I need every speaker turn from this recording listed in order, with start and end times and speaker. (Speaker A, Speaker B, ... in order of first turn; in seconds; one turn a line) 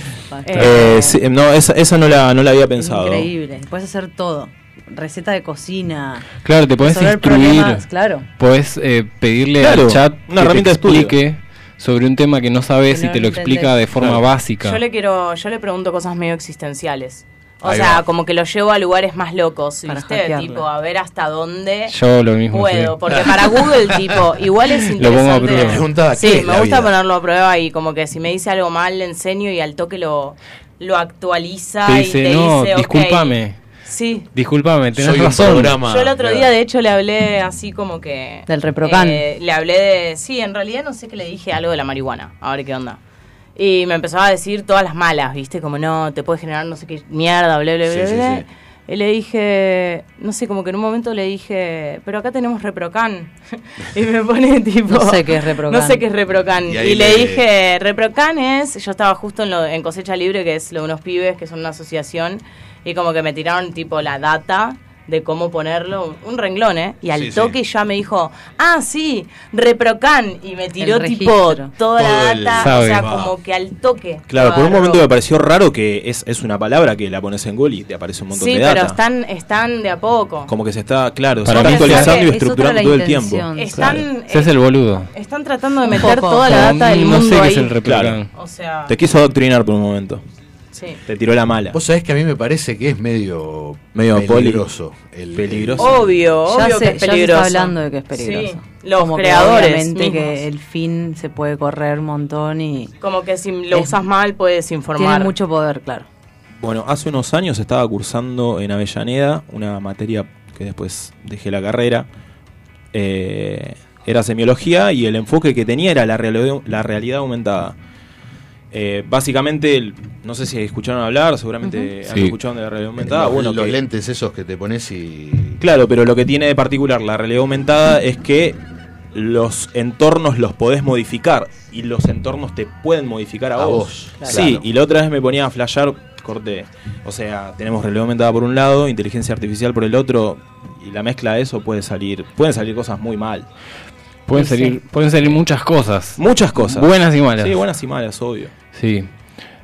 Speaker A: 0.3-1.2
Speaker B: 0.4-0.9
Speaker C: 0.6-3.3
Speaker A: 2.8-6.3
Speaker D: 6.4-7.9
Speaker A: 6.8-8.2
Speaker D: 8.4-14.8
Speaker C: 9.6-11.2
Speaker A: 12.9-13.7
Speaker B: 14.6-21.9
Speaker E: 17.6-18.0
Speaker A: 19.9-20.6
Speaker D: 21.9-23.3
Speaker B: 22.5-34.2
Speaker D: 24.9-25.9
Speaker E: 25.6-26.9
Speaker D: 31.9-33.6
Speaker D: 34.3-35.8
Speaker E: 34.9-36.5
Speaker B: 35.8-43.0
Speaker A: 38.5-39.2
Speaker B: 43.5-75.0
Speaker E: 47.8-48.5
Speaker A: 54.9-56.0
Speaker E: 56.7-57.4
Speaker E: 67.1-67.5
Speaker A: 70.8-71.7
Speaker E: 72.0-73.3
Speaker D: 72.6-73.0
Speaker C: 74.3-79.0
Speaker B: 78.3-80.5
Speaker C: 80.5-84.0
Speaker D: 81.4-82.3
Speaker A: 81.6-84.0
Speaker B: 81.6-82.3
Speaker B: 83.5-84.5
Speaker D: 84.3-85.1
Speaker B: 85.1-87.7
Speaker A: 85.8-86.9
Speaker D: 86.4-88.3
Speaker C: 87.8-88.2
Speaker B: 88.3-88.9
Speaker C: 88.9-90.2
Speaker B: 90.7-91.0
Speaker C: 91.1-91.8
Speaker E: 91.7-96.1
Speaker C: 93.9-94.6
Speaker C: 95.3-96.0
Speaker B: 95.8-100.4
Speaker A: 96.5-102.9
Speaker B: 103.0-105.3
Speaker A: 105.0-106.1
Speaker C: 106.6-112.1
Speaker C: 112.9-117.7
Speaker C: 118.7-123.8
Speaker A: 121.6-121.9
Speaker D: 122.1-122.3
Speaker E: 123.0-125.6
Speaker C: 125.6-128.6
Speaker C: 129.1-143.5
Speaker E: 133.5-134.7
Speaker D: 144.3-147.6
Speaker A: 144.3-144.8
Speaker C: 146.2-148.5
Speaker D: 148.7-149.1